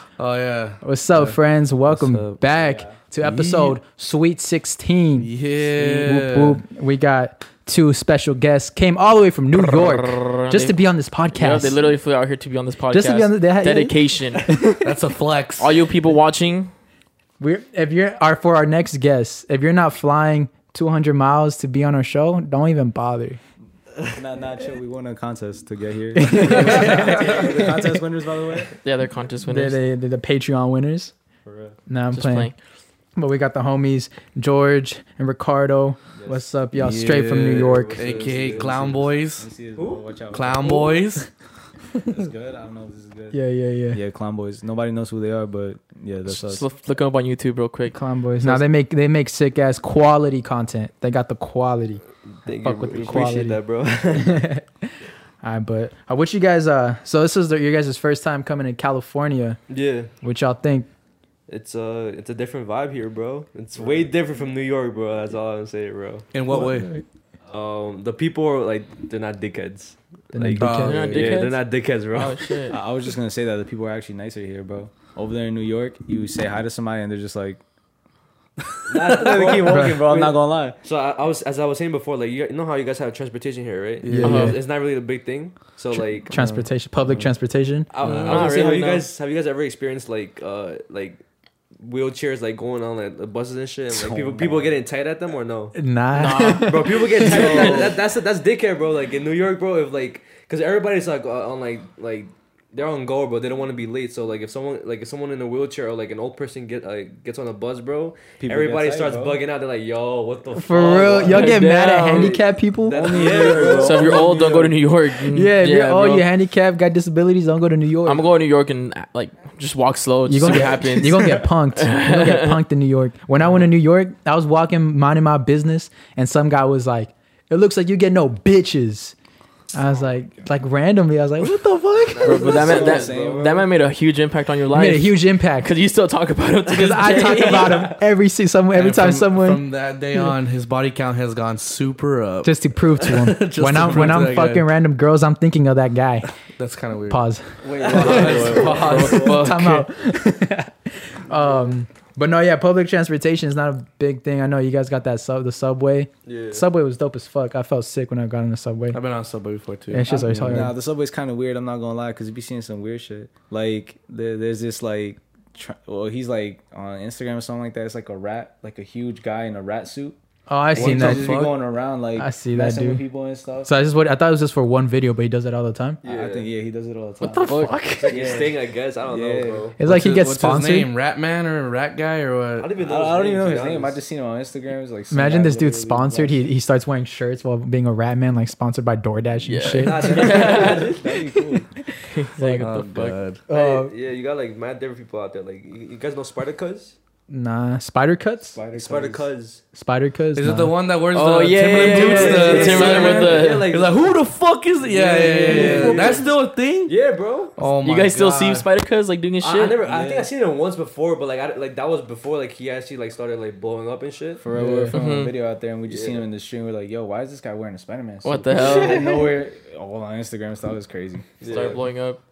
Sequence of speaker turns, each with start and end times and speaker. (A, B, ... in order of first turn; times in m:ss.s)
0:00.2-0:02.4 A
0:00.8-0:11.8 B
0:02.5-0:03.0 C
0:03.2-0:03.8 A
0:05.2-0:06.6 A
0:09.6-0:10.8 D
0:11.3-0:14.6 D
0:12.9-0:14.8 B
0:14.8-0:15.7 A
0:15.6-0:16.7 D
0:17.4-0:23.4 B
0:24.0-0:28.8 C
0:26.2-0:27.9 B
0:26.4-0:27.6 E
0:28.8-0:29.8 D
0:29.5-0:31.1 B
0:31.4-0:31.8 C
0:31.9-0:32.5 B
0:32.1-0:32.6 D
0:33.2-0:38.0 B
0:36.8-0:39.5 A
0:37.5-0:39.0 E
0:38.2-0:41.0 C
0:39.8-0:40.0 E
0:40.3-0:41.3 A
0:42.0-0:43.4 C
0:43.3-0:44.0 B
0:43.9-0:46.7 C
0:46.3-0:48.6 D
0:47.9-0:52.0 B
0:52.4-0:54.4 E
0:52.6-0:54.9 B
0:55.4-0:59.6 B
0:59.7-1:00.1 E
1:00.2-1:00.9 B
1:01.5-1:06.3 E
1:03.8-1:04.1 C
1:06.3-1:06.9 A
1:07.5-1:12.6 E
1:10.3-1:11.3 B
1:10.6-1:11.3 A
1:10.8-1:12.8 D
1:12.7-1:17.6 C
1:18.9-1:26.3 E
1:19.0-1:20.8 C
1:19.7-1:20.0 B
1:24.0-1:24.3 A
1:24.0-1:24.6 B
1:24.2-1:24.6 D
1:25.9-1:27.9 B
1:26.3-1:27.3 C
1:27.9-1:31.2 E
1:28.0-1:28.5 A
1:28.2-1:29.0 D
1:31.8-1:35.8 E
1:33.9-1:34.7 C
1:35.7-1:37.8 B
1:36.1-1:37.9 D
1:36.6-1:54.4 E
1:37.5-1:37.8 C
1:48.4-1:49.4 C
1:50.5-1:53.3 B
1:51.2-1:52.4 D
1:52.9-1:54.8 C
1:53.4-1:56.3 D
1:55.3-1:58.2 B
1:58.0-2:02.6 D
2:00.2-2:09.1 B
2:09.7-2:12.5 B
2:12.1-2:13.6 E
2:12.2-2:18.0 D
2:12.3-2:13.7 C
2:14.7-2:15.7 B
2:16.7-2:20.3 B
2:17.2-2:17.7 E
2:18.7-2:24.7 A
2:22.4-2:26.3 B
2:26.6-2:27.2 A
2:27.1-2:28.5 B
2:27.6-2:29.5 C
2:27.8-2:29.3 E
2:27.9-2:29.4 A
2:28.0-2:29.8 D
2:29.1-2:39.0 B
2:36.2-2:36.6 E
2:38.9-2:40.7 A
2:39.9-2:40.8 B
2:40.0-2:50.2 C
2:50.5-2:51.3 B
2:50.7-2:53.7 C
2:50.8-2:51.6 A
2:52.1-2:53.0 B
2:53.6-2:56.0 B
2:56.0-2:56.5 E
2:56.0-2:59.8 C
2:57.2-2:58.3 B
2:57.2-2:58.0 D
2:58.0-2:59.8 E
2:59.8-3:00.9 B
2:59.8-3:02.7 A
3:02.6-3:04.0 E
3:02.8-3:06.4 C
3:05.1-3:10.6 B
3:09.4-3:10.9 D
3:09.7-3:11.2 E
3:10.2-3:11.7 C
3:12.1-3:13.2 D
3:12.3-3:12.7 B
3:12.6-3:13.4 A
3:13.5-3:13.9 B
3:13.5-3:17.0 E
3:17.3-3:18.6 B
3:18.5-3:19.2 C
3:18.7-3:19.6 E
3:19.8-3:20.7 B
3:20.3-3:26.9 A
3:21.1-3:23.7 D
3:21.8-3:24.1 E
3:21.9-3:23.2 C
3:24.9-3:26.3 C
3:25.0-3:26.3 E
3:26.8-3:27.5 E
3:27.6-3:28.7 A
3:27.8-3:29.8 D
3:29.4-3:34.4 E
3:29.8-3:30.3 C
3:34.4-3:41.3 C
3:34.5-3:34.9 B
3:34.9-3:35.3 D
3:35.8-3:36.2 E
3:38.2-3:39.3 D
3:38.5-3:39.0 E
3:41.4-3:41.8 E
3:41.4-3:42.2 D